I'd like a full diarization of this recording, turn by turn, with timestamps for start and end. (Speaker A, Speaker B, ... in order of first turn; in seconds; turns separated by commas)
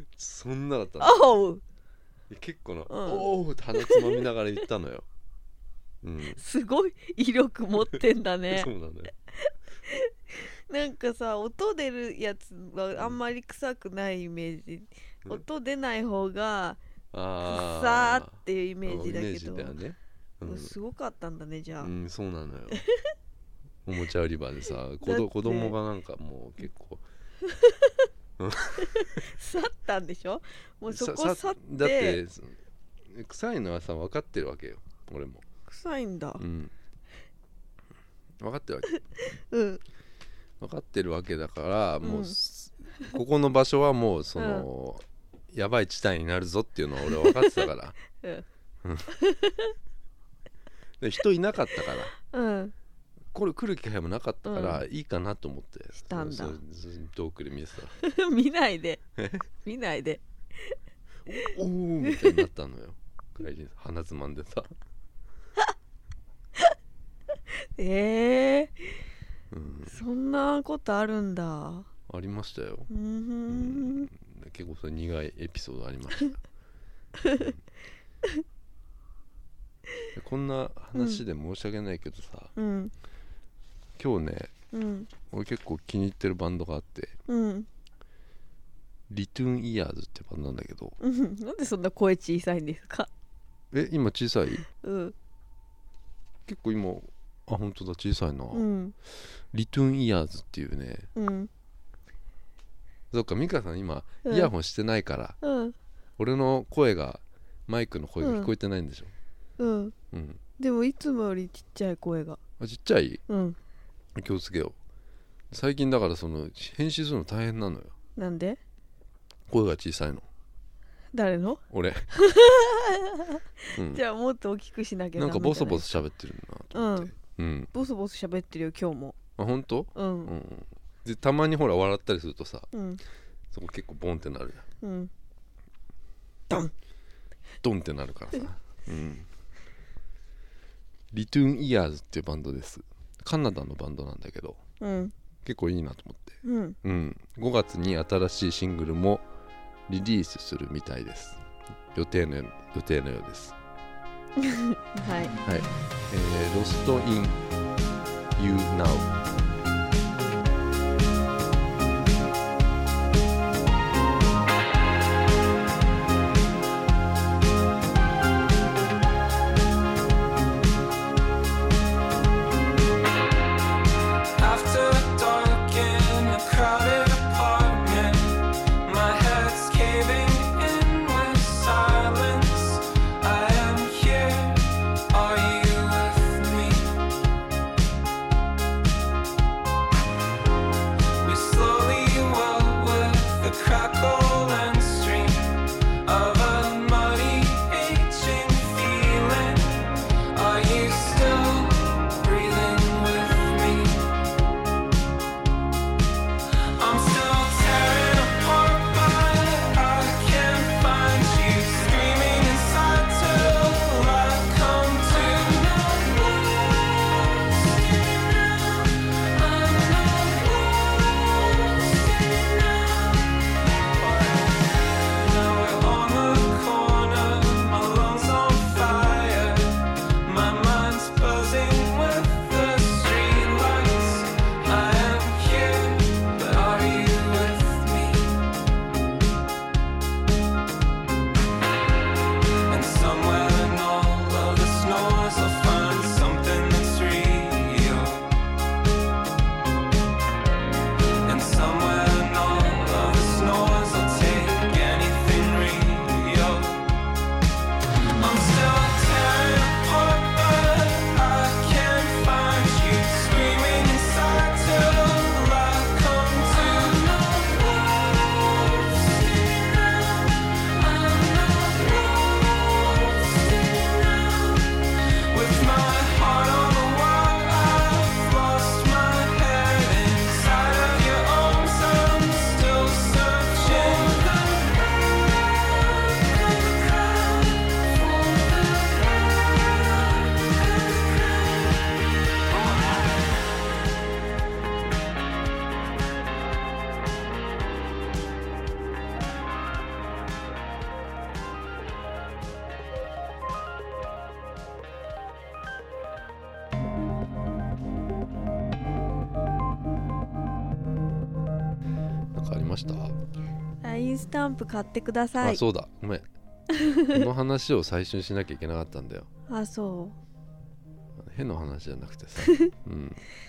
Speaker A: 0.2-1.2, Speaker B: 1.0-1.6, Speaker A: 2.3-5.0, Speaker B: 2.9-4.2, Speaker A: 6.0-6.4, Speaker B: 6.3-8.7, Speaker A: 8.5-9.1, Speaker B: 9.4-16.8, Speaker A: 17.1-20.8, Speaker B: 17.4-19.8, Speaker B: 20.4-21.9, Speaker A: 21.8-22.8, Speaker B: 22.7-23.1, Speaker A: 23.9-27.0, Speaker B: 25.0-25.8, Speaker B: 27.4-28.1, Speaker A: 28.4-29.2, Speaker B: 28.8-32.2, Speaker A: 30.9-35.5, Speaker B: 35.7-36.4, Speaker A: 36.4-36.7, Speaker A: 38.4-38.9, Speaker B: 39.0-39.8, Speaker A: 40.6-48.0, Speaker B: 42.0-42.4, Speaker B: 44.4-44.7, Speaker B: 47.0-47.7, Speaker B: 48.2-48.5, Speaker A: 48.8-49.1, Speaker B: 49.1-49.8, Speaker A: 51.0-52.1, Speaker B: 51.8-52.7, Speaker A: 53.3-58.0, Speaker B: 54.5-54.8, Speaker B: 56.1-56.6, Speaker B: 58.0-59.0, Speaker A: 59.2-59.5, Speaker B: 59.6-60.8, Speaker A: 61.3-64.7, Speaker B: 62.0-62.5, Speaker B: 67.5-68.8, Speaker A: 69.5-70.0, Speaker B: 69.9-71.9, Speaker A: 72.1-72.9, Speaker B: 72.9-74.1, Speaker A: 73.5-76.4, Speaker B: 77.2-77.5, Speaker A: 77.3-77.6, Speaker A: 80.1-82.5, Speaker B: 81.0-81.2, Speaker B: 82.6-82.9, Speaker A: 84.0-84.5, Speaker B: 84.7-85.1, Speaker A: 85.3-87.2, Speaker B: 87.3-87.7, Speaker A: 89.1-91.0, Speaker B: 91.0-93.1, Speaker A: 93.7-94.7, Speaker B: 94.7-95.2, Speaker A: 96.5-98.7, Speaker B: 98.5-99.0, Speaker A: 99.3-101.1, Speaker B: 101.2-101.5, Speaker A: 103.1-105.4, Speaker B: 104.2-104.5, Speaker B: 105.4-105.8, Speaker A: 106.2-109.1, Speaker B: 108.2-108.5, Speaker B: 109.6-110.0, Speaker A: 110.1-110.4, Speaker B: 110.6-112.4, Speaker A: 112.6-113.2, Speaker B: 113.3-113.6, Speaker A: 114.2-114.8, Speaker A: 115.5-117.9, Speaker B: 118.2-118.6, Speaker A: 119.5-120.3, Speaker B: 121.1-126.0, Speaker A: 121.7-122.1, Speaker A: 123.7-124.0, Speaker A: 125.2-127.7, Speaker B: 126.7-127.1, Speaker B: 127.7-129.2, Speaker A: 129.4-132.7, Speaker B: 129.9-130.3, Speaker B: 132.7-133.0, Speaker A: 133.5-134.7, Speaker B: 134.8-135.1, Speaker A: 137.6-139.3, Speaker A: 141.1-144.6, Speaker B: 144.8-145.1, Speaker A: 145.4-149.2, Speaker B: 146.4-146.8, Speaker A: 149.9-151.4, Speaker A: 151.9-153.6, Speaker B: 154.4-155.4, Speaker A: 155.4-157.4, Speaker A: 158.4-159.1, Speaker C: 174.4-187.0, Speaker C: 191.2-204.1, Speaker C: 206.6-238.5, Speaker C: 242.7-248.3, Speaker C: 251.2-257.0, Speaker C: 258.1-284.9, Speaker C: 286.5-289.1, Speaker A: 312.3-313.2, Speaker B: 313.8-315.6, Speaker A: 315.4-316.3, Speaker B: 316.8-317.3, Speaker A: 317.1-319.3, Speaker B: 319.5-320.2, Speaker A: 321.2-323.2, Speaker B: 322.4-322.7